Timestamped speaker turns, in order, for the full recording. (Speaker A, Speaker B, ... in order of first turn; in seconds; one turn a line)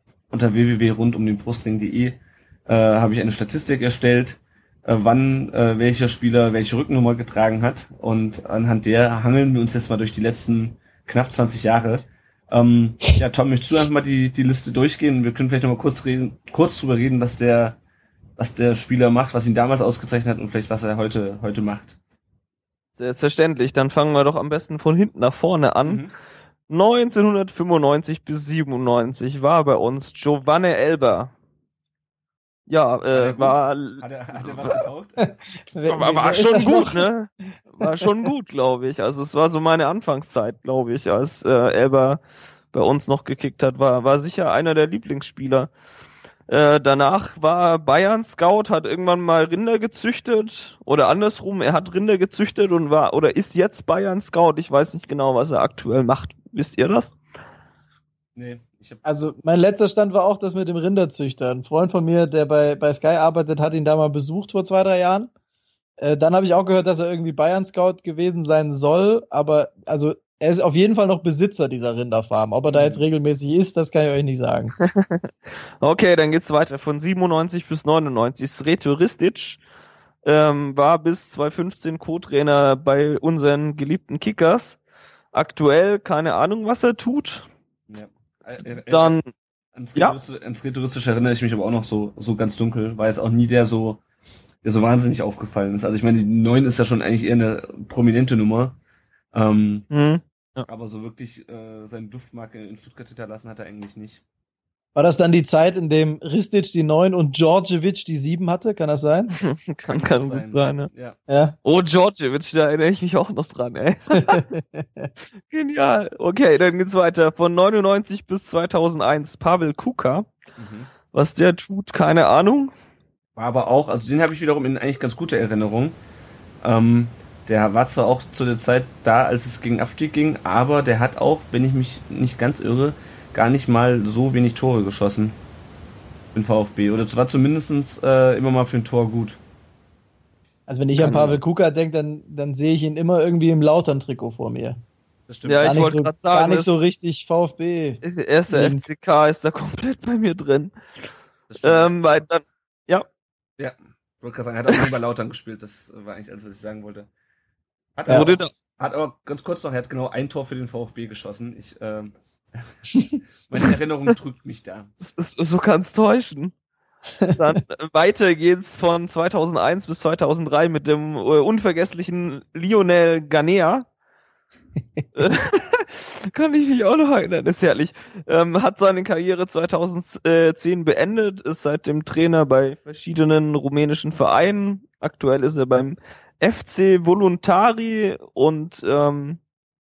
Speaker A: 0.3-17.8
Speaker A: 18.4-22.0
Speaker B: 23.0-26.0
Speaker A: 25.8-26.1
Speaker B: 26.7-31.3
Speaker B: 32.7-34.0
Speaker A: 33.1-35.2
Speaker C: 35.2-37.1
Speaker B: 35.9-42.2
Speaker B: 42.7-45.7
Speaker B: 46.5-57.1
Speaker A: 58.4-59.0
Speaker C: 59.0-65.3
Speaker C: 66.0-74.7
Speaker A: 72.7-73.0
Speaker B: 74.8-75.3
Speaker B: 75.8-79.6
Speaker B: 80.2-84.8
Speaker B: 85.3-87.5
Speaker A: 87.9-89.2
Speaker B: 88.9-89.3
Speaker A: 89.7-94.0
Speaker A: 94.6-98.8
Speaker A: 99.3-99.9
Speaker B: 99.9-100.7
Speaker A: 100.7-104.2
Speaker C: 104.9-109.3
Speaker B: 109.3-110.9
Speaker A: 109.8-111.2
Speaker C: 111.3-111.5
Speaker B: 111.6-114.4
Speaker C: 114.2-115.1
Speaker B: 115.5-120.3
Speaker A: 120.6-120.9
Speaker B: 121.1-122.7
Speaker A: 123.3-126.0
Speaker A: 126.6-135.4
Speaker A: 136.3-139.4
Speaker C: 140.7-144.8
Speaker B: 141.0-141.3
Speaker A: 145.3-145.8
Speaker B: 145.4-146.7
Speaker C: 145.6-148.8
Speaker B: 148.0-150.8
Speaker A: 151.5-151.9
Speaker B: 151.6-153.1
Speaker A: 153.6-157.1
Speaker A: 157.9-162.7
Speaker B: 158.1-158.5
Speaker A: 163.5-164.9
Speaker B: 165.0-166.5
Speaker B: 167.4-173.9
Speaker B: 175.2-189.4